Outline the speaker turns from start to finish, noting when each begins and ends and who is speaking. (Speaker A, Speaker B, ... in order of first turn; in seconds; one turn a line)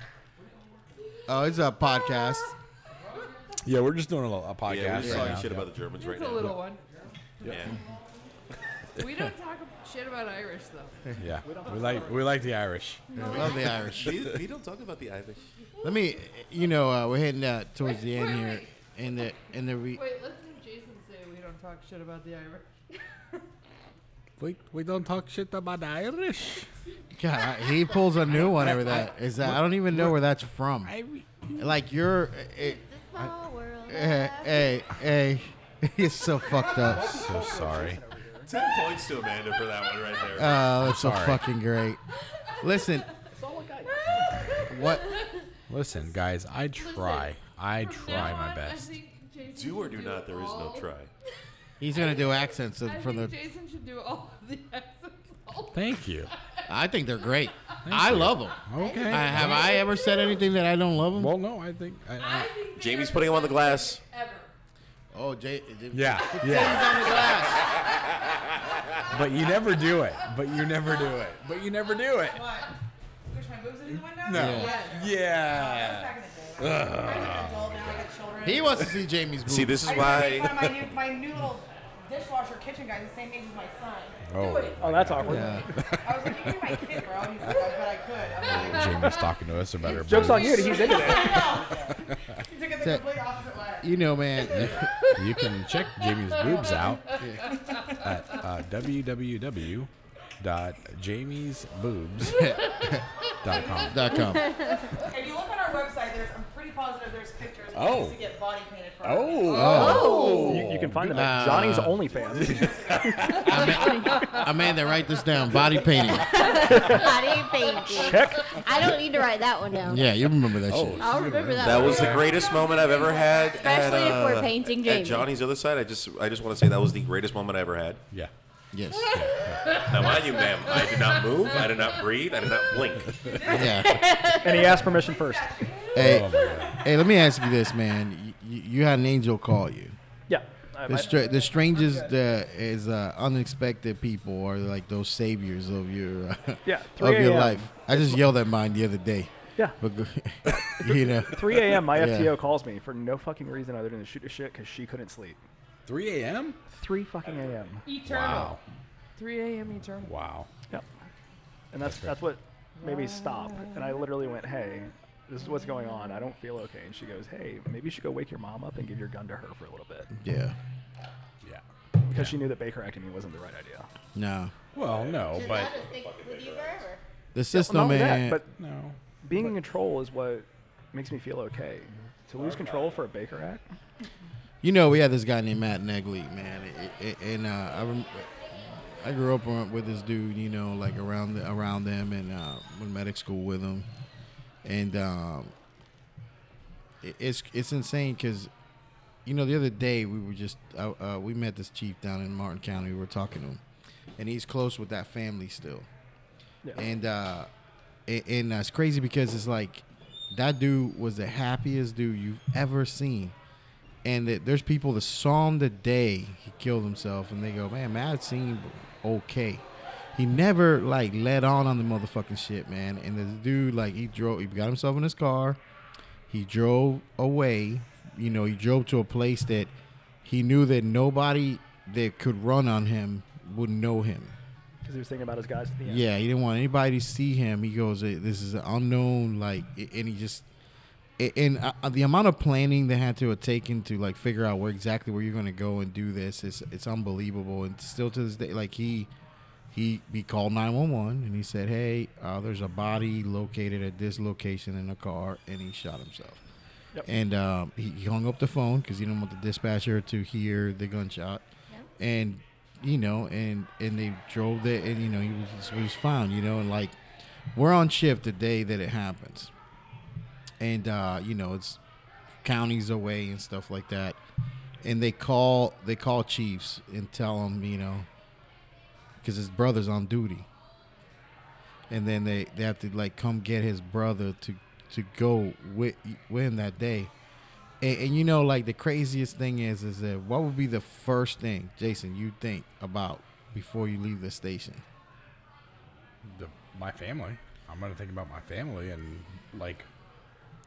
Speaker A: 1.3-2.5
Speaker B: 3.6-5.7
Speaker C: 4.6-6.6
Speaker A: 5.0-5.4
Speaker D: 6.0-6.8
Speaker D: 7.4-7.8
Speaker C: 7.4-7.8
Speaker D: 9.0-11.1
Speaker B: 11.2-13.3
Speaker E: 11.4-12.4
Speaker D: 13.2-13.8
Speaker A: 13.2-14.3
Speaker C: 13.3-15.5
Speaker A: 15.8-20.0
Speaker D: 17.8-18.7
Speaker D: 19.9-22.7
Speaker B: 24.4-26.7
Speaker A: 27.2-30.9
Speaker B: 28.4-30.2
Speaker B: 30.9-31.7
Speaker A: 31.6-33.3
Speaker F: 32.6-34.8
Speaker A: 33.9-37.2
Speaker E: 36.6-38.5
Speaker B: 36.8-38.0
Speaker C: 38.5-40.7
Speaker A: 40.4-42.0
Speaker B: 40.7-41.4
Speaker A: 42.6-43.1
Speaker E: 43.3-44.5
Speaker A: 44.6-45.1
Speaker B: 45.7-48.9
Speaker D: 46.8-50.9
Speaker C: 49.5-51.1
Speaker A: 51.8-53.4
Speaker D: 51.9-56.7
Speaker B: 55.7-56.3
Speaker A: 56.7-61.4
Speaker B: 57.9-59.7
Speaker F: 58.8-59.1
Speaker D: 58.8-60.2
Speaker B: 61.1-62.6
Speaker D: 62.2-64.5
Speaker C: 62.7-64.0
Speaker A: 65.1-67.6
Speaker B: 65.9-67.0
Speaker D: 66.3-67.8
Speaker B: 69.1-72.5
Speaker G: 72.3-72.7
Speaker G: 73.3-79.0
Speaker B: 73.9-78.1
Speaker A: 74.3-74.7
Speaker D: 74.5-75.1
Speaker A: 78.4-80.3
Speaker C: 79.4-80.8
Speaker G: 79.9-84.2
Speaker B: 84.3-87.7
Speaker D: 84.3-84.8
Speaker E: 84.8-85.7
Speaker A: 85.2-85.7
Speaker G: 86.0-89.2
Speaker B: 88.4-90.9
Speaker D: 88.5-89.3
Speaker D: 89.9-91.4
Speaker E: 90.0-91.5
Speaker G: 90.2-93.9
Speaker B: 91.9-92.4
Speaker A: 93.8-94.9
Speaker B: 94.5-97.2
Speaker D: 96.0-98.4
Speaker A: 97.2-97.6
Speaker B: 97.9-102.6
Speaker A: 102.3-103.0
Speaker D: 102.5-102.9
Speaker B: 103.4-104.2
Speaker G: 103.5-104.0
Speaker A: 103.8-104.8
Speaker F: 104.5-104.8
Speaker G: 104.9-110.5
Speaker B: 107.7-108.2
Speaker B: 109.0-113.7
Speaker A: 109.5-110.2
Speaker F: 109.6-110.7
Speaker E: 109.9-113.4
Speaker A: 111.1-112.0
Speaker G: 112.1-113.9
Speaker A: 113.4-116.6
Speaker D: 113.5-114.4
Speaker F: 113.6-113.9
Speaker F: 116.2-120.1
Speaker E: 116.5-117.3
Speaker E: 117.8-119.0
Speaker A: 119.9-121.1
Speaker B: 120.7-122.4
Speaker F: 121.0-125.3
Speaker C: 121.6-128.1
Speaker G: 122.0-124.0
Speaker A: 128.7-129.3
Speaker B: 129.1-130.2
Speaker D: 129.4-131.8
Speaker C: 129.7-133.5
Speaker G: 133.3-133.8
Speaker A: 133.5-134.0
Speaker F: 133.8-134.8
Speaker E: 134.4-135.7
Speaker G: 134.5-136.6
Speaker B: 135.9-136.8
Speaker A: 135.9-140.0
Speaker D: 136.2-136.6
Speaker E: 140.3-141.2
Speaker A: 140.9-152.4
Speaker D: 141.2-141.8
Speaker E: 146.7-148.2
Speaker E: 150.5-155.4
Speaker B: 155.9-156.6
Speaker E: 156.7-157.9
Speaker D: 157.8-158.6
Speaker B: 158.0-158.6
Speaker D: 159.2-160.1
Speaker B: 160.0-160.5
Speaker E: 161.7-170.1
Speaker B: 161.8-162.2
Speaker D: 162.8-164.3
Speaker D: 165.6-166.0
Speaker A: 170.2-170.6
Speaker B: 171.4-172.4
Speaker E: 172.0-173.9
Speaker A: 174.2-174.5
Speaker B: 174.8-175.7
Speaker C: 174.8-177.0
Speaker F: 175.3-177.0
Speaker A: 177.3-178.4
Speaker E: 177.5-178.5
Speaker B: 178.6-179.0
Speaker E: 179.2-183.6
Speaker C: 182.4-183.1
Speaker A: 184.6-193.9
Speaker A: 194.6-195.5
Speaker A: 197.0-198.5
Speaker A: 199.2-203.6
Speaker A: 204.2-205.9
Speaker A: 206.8-207.5
Speaker A: 208.1-213.3
Speaker A: 214.0-219.6
Speaker A: 220.2-225.6
Speaker A: 226.3-229.7
Speaker A: 230.2-234.3
Speaker E: 234.8-236.1
Speaker A: 235.9-240.5
Speaker A: 241.2-249.1
Speaker A: 249.7-256.4
Speaker A: 257.1-261.4
Speaker A: 262.0-267.0
Speaker A: 267.6-269.5
Speaker A: 270.6-271.8
Speaker A: 272.4-274.2
Speaker A: 274.8-278.1
Speaker A: 279.2-280.5
Speaker A: 281.9-287.1
Speaker A: 287.8-294.8
Speaker B: 296.2-299.9